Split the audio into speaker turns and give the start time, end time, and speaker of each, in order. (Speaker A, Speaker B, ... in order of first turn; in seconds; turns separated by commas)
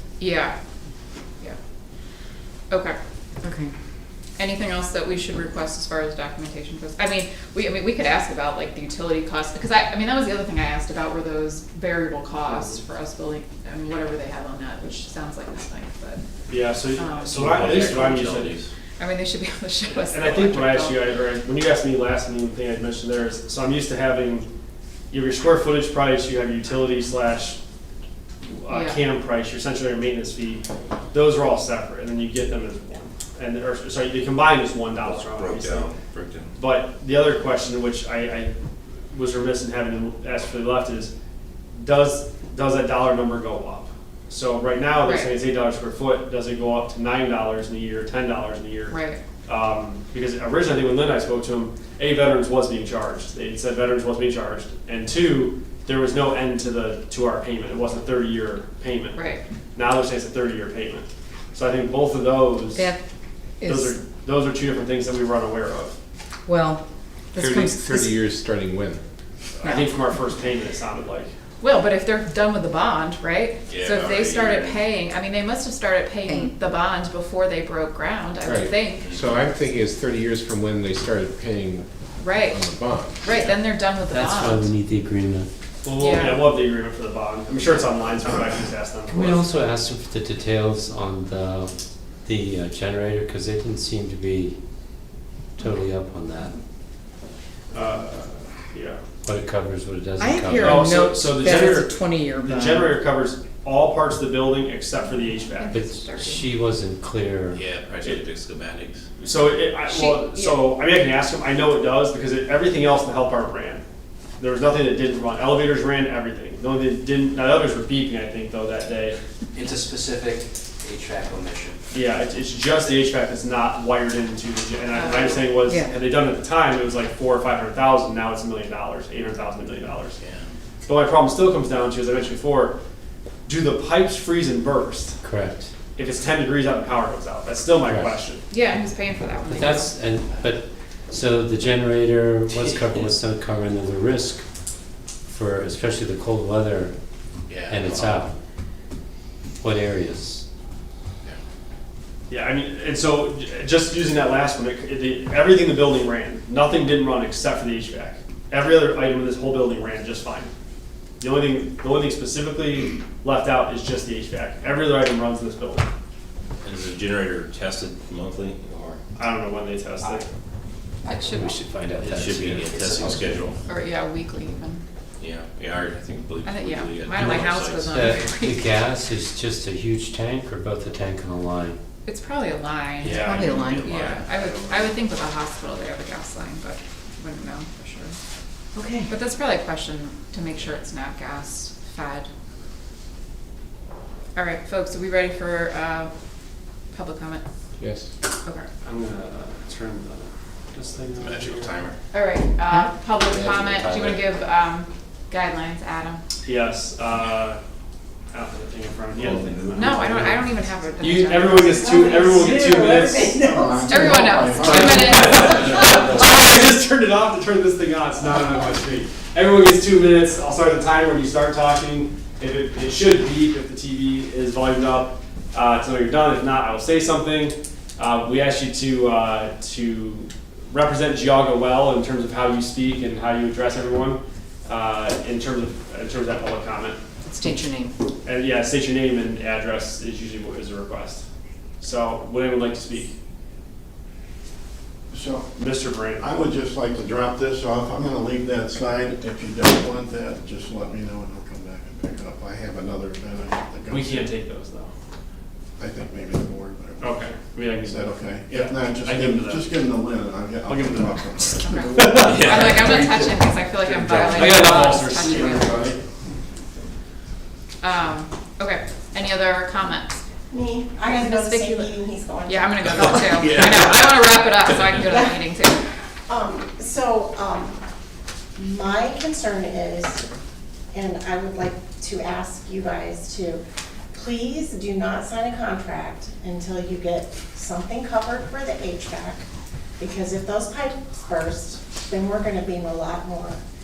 Speaker A: 0.2-0.6, Speaker A: 2.7-3.0, Speaker B: 3.4-3.7, Speaker A: 4.4-16.2, Speaker C: 12.5-12.8, Speaker C: 16.5-18.6, Speaker A: 16.9-17.6, Speaker D: 17.3-18.7, Speaker A: 19.0-21.0, Speaker C: 20.1-24.5, Speaker C: 25.1-27.6, Speaker C: 28.4-35.9, Speaker A: 28.7-29.0, Speaker D: 35.0-36.6, Speaker C: 36.6-38.5, Speaker C: 39.1-41.1, Speaker C: 41.8-59.2, Speaker A: 45.0-45.3, Speaker A: 48.9-49.2, Speaker A: 59.1-59.4, Speaker C: 59.7-62.8, Speaker B: 63.6-63.9, Speaker C: 63.7-66.0, Speaker B: 66.5-66.8, Speaker B: 67.3-68.2, Speaker E: 67.4-69.0, Speaker B: 69.6-70.2, Speaker C: 69.6-71.3, Speaker A: 71.6-79.1, Speaker D: 73.7-74.9, Speaker B: 76.3-76.5, Speaker E: 78.5-81.9, Speaker D: 79.0-79.3, Speaker A: 82.2-82.7, Speaker E: 82.5-83.3, Speaker A: 83.2-84.7, Speaker F: 84.0-85.5, Speaker C: 85.8-89.6, Speaker A: 86.0-86.5, Speaker F: 89.1-94.6, Speaker F: 95.6-96.5, Speaker C: 97.7-99.0, Speaker F: 99.2-100.9, Speaker B: 100.2-103.1, Speaker C: 100.7-101.9, Speaker C: 102.5-105.7, Speaker A: 105.5-106.5, Speaker F: 105.7-107.6, Speaker D: 107.5-109.0, Speaker C: 109.2-113.8, Speaker A: 109.9-110.6, Speaker C: 114.4-119.2, Speaker G: 119.5-121.8, Speaker C: 121.9-130.2, Speaker A: 124.9-125.8, Speaker B: 125.6-126.0, Speaker C: 130.8-132.8, Speaker C: 133.5-135.2, Speaker F: 135.2-135.7, Speaker C: 135.9-138.5, Speaker F: 137.8-138.1, Speaker A: 138.5-139.9, Speaker F: 139.4-144.4, Speaker F: 145.3-146.9, Speaker D: 147.5-148.2, Speaker F: 147.7-148.3, Speaker F: 149.6-150.4, Speaker C: 152.3-160.5, Speaker C: 161.2-165.9, Speaker D: 166.6-169.0, Speaker C: 169.2-170.3, Speaker A: 171.1-171.5, Speaker F: 171.2-173.2, Speaker D: 172.0-173.6, Speaker A: 173.7-174.8, Speaker D: 175.2-178.1, Speaker A: 176.4-178.7, Speaker F: 177.2-181.8, Speaker A: 182.1-188.2, Speaker D: 183.0-184.7, Speaker B: 183.1-183.9, Speaker B: 188.8-189.1, Speaker A: 189.1-192.3, Speaker A: 194.4-196.1, Speaker A: 196.9-197.4, Speaker E: 197.8-198.1, Speaker C: 198.8-201.7, Speaker D: 201.1-202.0, Speaker A: 202.1-206.2, Speaker F: 203.2-204.3, Speaker C: 206.4-207.6, Speaker C: 208.3-210.4, Speaker A: 209.7-211.9, Speaker H: 209.9-210.3, Speaker C: 211.0-213.3, Speaker I: 211.7-214.9, Speaker H: 213.4-215.7, Speaker A: 213.9-216.3, Speaker C: 214.7-237.0, Speaker B: 237.3-237.9, Speaker C: 238.2-241.3, Speaker C: 241.8-243.2, Speaker H: 245.1-245.5, Speaker C: 245.6-246.2, Speaker H: 246.2-254.3, Speaker C: 253.9-254.9, Speaker H: 255.8-262.6, Speaker C: 257.0-259.7, Speaker C: 260.7-261.0, Speaker A: 261.6-265.9, Speaker B: 261.7-262.4, Speaker C: 262.1-263.1, Speaker D: 262.2-263.3, Speaker C: 263.9-266.0, Speaker H: 265.2-265.6, Speaker A: 267.8-270.2, Speaker I: 270.5-273.9, Speaker A: 271.0-275.9, Speaker D: 273.4-274.4, Speaker I: 275.1-275.4, Speaker I: 276.3-277.8, Speaker I: 278.6-280.3, Speaker I: 280.9-283.6, Speaker I: 284.1-289.5, Speaker I: 290.0-293.6